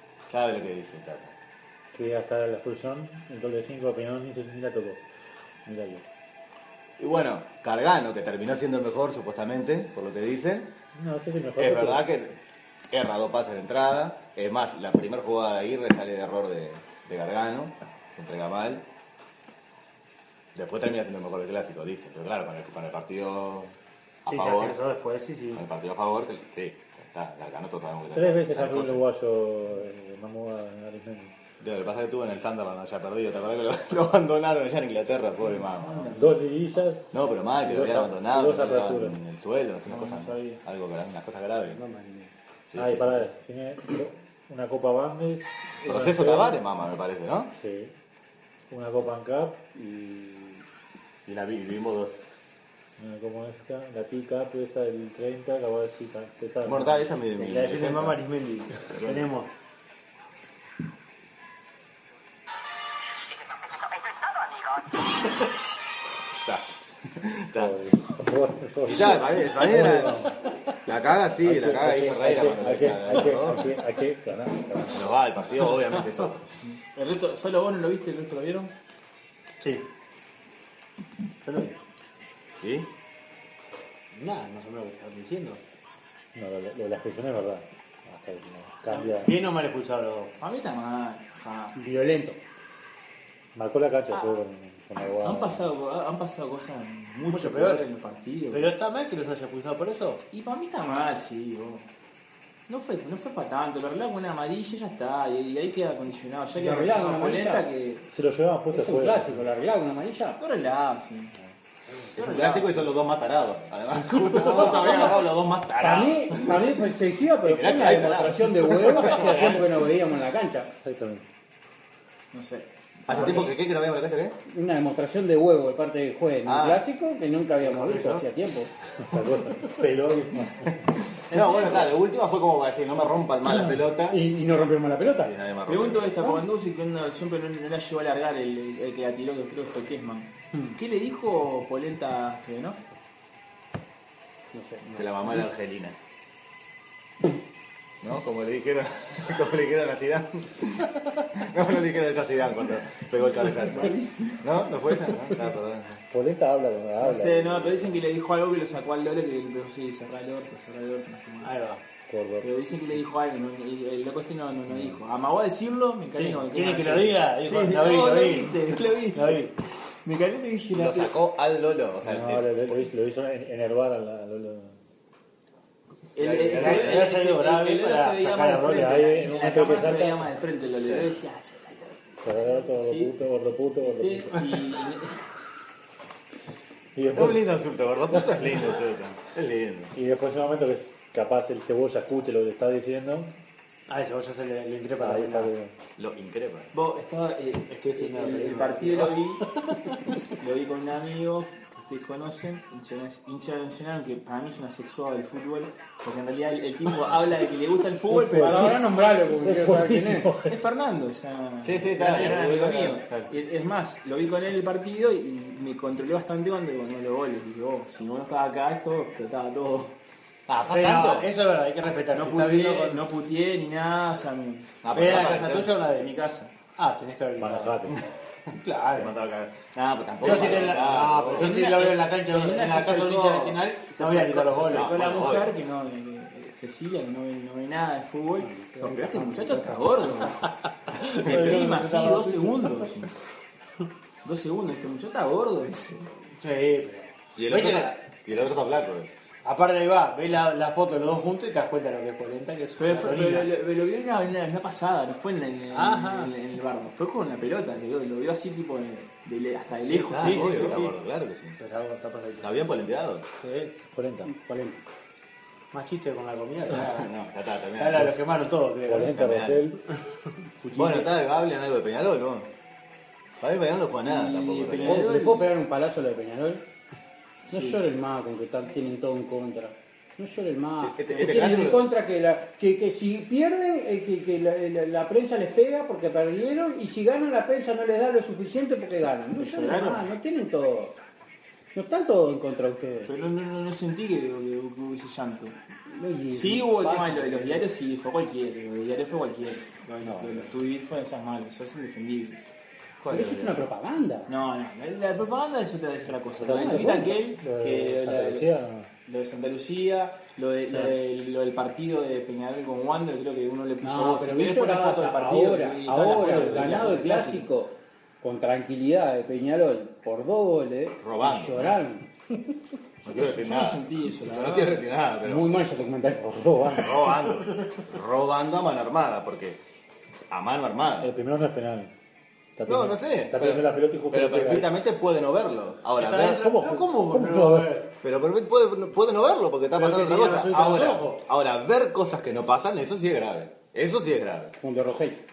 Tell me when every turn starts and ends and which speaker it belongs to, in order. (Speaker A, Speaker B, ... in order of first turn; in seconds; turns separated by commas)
Speaker A: 0.3-1.3, Speaker B: 1.9-5.0, Speaker B: 5.7-6.0, Speaker A: 7.0-10.7, Speaker B: 10.9-12.0, Speaker A: 11.6-12.3, Speaker A: 12.9-18.8, Speaker A: 20.5-23.7, Speaker A: 24.2-24.8, Speaker C: 24.2-25.6, Speaker A: 25.5-29.0, Speaker B: 28.1-31.3, Speaker A: 31.6-36.2, Speaker D: 35.4-36.4, Speaker B: 36.1-39.1, Speaker A: 37.1-41.8, Speaker D: 39.9-40.6, Speaker C: 41.7-42.3, Speaker A: 42.7-43.3, Speaker B: 42.8-46.6, Speaker A: 45.8-47.5, Speaker B: 47.5-47.9, Speaker B: 48.7-50.6, Speaker A: 51.2-52.2, Speaker B: 53.0-57.1, Speaker A: 56.6-58.2, Speaker C: 57.4-59.5, Speaker A: 58.9-59.2, Speaker A: 66.4-67.8, Speaker B: 67.6-70.3, Speaker A: 68.9-70.3, Speaker A: 70.9-73.8, Speaker B: 71.4-75.0, Speaker A: 74.9-76.4, Speaker D: 76.9-78.7, Speaker C: 79.6-79.9, Speaker C: 81.4-81.8, Speaker A: 82.6-82.9, Speaker C: 84.1-85.6, Speaker B: 86.3-89.3, Speaker C: 89.1-90.3, Speaker D: 90.4-91.7, Speaker E: 91.7-92.4, Speaker B: 93.5-95.7, Speaker D: 94.1-94.4, Speaker D: 95.2-98.7, Speaker C: 97.3-97.8, Speaker C: 98.5-100.2, Speaker D: 100.3-101.9, Speaker D: 102.7-108.1, Speaker E: 106.5-107.6, Speaker B: 108.1-109.4, Speaker E: 108.7-110.4, Speaker D: 110.4-111.3, Speaker A: 112.1-116.7, Speaker D: 112.2-112.9, Speaker D: 114.3-115.1, Speaker E: 115.8-120.7, Speaker A: 117.4-119.6, Speaker B: 120.8-121.2, Speaker D: 122.3-123.5, Speaker A: 123.1-124.3, Speaker E: 124.5-128.7, Speaker A: 126.4-126.8, Speaker C: 127.6-128.2, Speaker B: 129.0-130.8, Speaker A: 131.3-134.2, Speaker C: 131.3-131.8, Speaker E: 134.1-135.3, Speaker A: 135.1-136.2, Speaker D: 135.7-142.8, Speaker E: 144.5-144.8, Speaker D: 144.8-145.5, Speaker A: 144.9-145.9, Speaker A: 148.0-156.0, Speaker D: 153.4-154.4, Speaker B: 156.1-157.9, Speaker D: 157.0-161.5, Speaker C: 161.4-161.8, Speaker B: 162.1-162.5, Speaker D: 162.4-169.5, Speaker B: 164.7-164.9, Speaker C: 166.1-169.5, Speaker D: 170.0-171.1, Speaker A: 170.7-172.9, Speaker B: 172.0-174.7, Speaker D: 176.1-183.2, Speaker A: 176.2-177.1, Speaker C: 176.5-179.1, Speaker B: 178.9-180.2, Speaker A: 180.8-181.1, Speaker B: 182.2-184.6, Speaker D: 183.8-185.2, Speaker B: 186.9-187.4, Speaker A: 187.1-189.9, Speaker B: 188.1-188.4, Speaker B: 189.9-193.3, Speaker C: 193.9-195.5, Speaker B: 195.0-195.7, Speaker A: 196.0-196.7, Speaker D: 196.7-199.4, Speaker C: 197.9-200.1, Speaker D: 200.4-208.8, Speaker B: 208.1-210.6, Speaker E: 208.3-210.3, Speaker D: 210.4-219.9, Speaker A: 211.6-213.3, Speaker C: 212.0-212.3, Speaker A: 220.5-221.3, Speaker C: 220.7-223.0, Speaker D: 222.1-224.7, Speaker A: 224.8-225.7, Speaker C: 224.9-226.1, Speaker D: 225.9-226.5, Speaker C: 226.8-227.9, Speaker B: 227.4-228.0, Speaker C: 228.6-229.1, Speaker A: 228.8-231.5, Speaker C: 230.2-235.4, Speaker D: 230.2-240.5, Speaker A: 234.7-235.5, Speaker E: 238.4-239.7, Speaker A: 238.8-239.1, Speaker C: 241.0-242.2, Speaker A: 241.0-241.7, Speaker D: 241.2-243.1, Speaker B: 241.3-242.7, Speaker D: 244.2-246.1, Speaker C: 246.4-248.0, Speaker A: 247.3-249.1, Speaker C: 249.4-253.5, Speaker D: 252.8-260.8, Speaker C: 255.7-256.3, Speaker A: 259.8-261.6, Speaker C: 260.1-260.9, Speaker C: 261.6-262.6, Speaker A: 262.4-263.2, Speaker C: 263.4-263.7, Speaker B: 263.9-264.3, Speaker E: 264.2-264.8, Speaker C: 265.7-267.1, Speaker A: 266.7-268.1, Speaker C: 267.8-269.2, Speaker B: 268.9-269.8, Speaker A: 269.1-269.6, Speaker C: 270.6-271.1, Speaker A: 270.7-272.5, Speaker A: 273.4-275.1, Speaker D: 274.1-275.5, Speaker E: 274.8-276.6, Speaker D: 277.4-277.8, Speaker E: 277.5-291.0, Speaker A: 280.8-281.9, Speaker D: 289.4-290.1, Speaker E: 291.7-293.1, Speaker D: 293.1-295.6, Speaker E: 295.9-297.6, Speaker D: 296.3-302.4, Speaker B: 300.0-300.4, Speaker D: 303.0-303.7, Speaker E: 303.1-304.3, Speaker D: 304.3-308.5, Speaker B: 306.3-308.9, Speaker E: 306.5-307.1, Speaker D: 309.0-317.5, Speaker E: 313.8-322.1, Speaker B: 316.1-316.8, Speaker A: 321.0-321.8, Speaker A: 323.0-325.8, Speaker D: 323.0-324.8, Speaker E: 325.2-327.1, Speaker A: 326.7-329.6, Speaker A: 330.3-331.1, Speaker B: 331.0-331.9, Speaker B: 332.6-334.7, Speaker A: 332.6-336.5, Speaker C: 336.0-337.9, Speaker B: 336.3-337.8, Speaker A: 338.0-344.5, Speaker C: 339.7-341.2, Speaker E: 344.6-345.2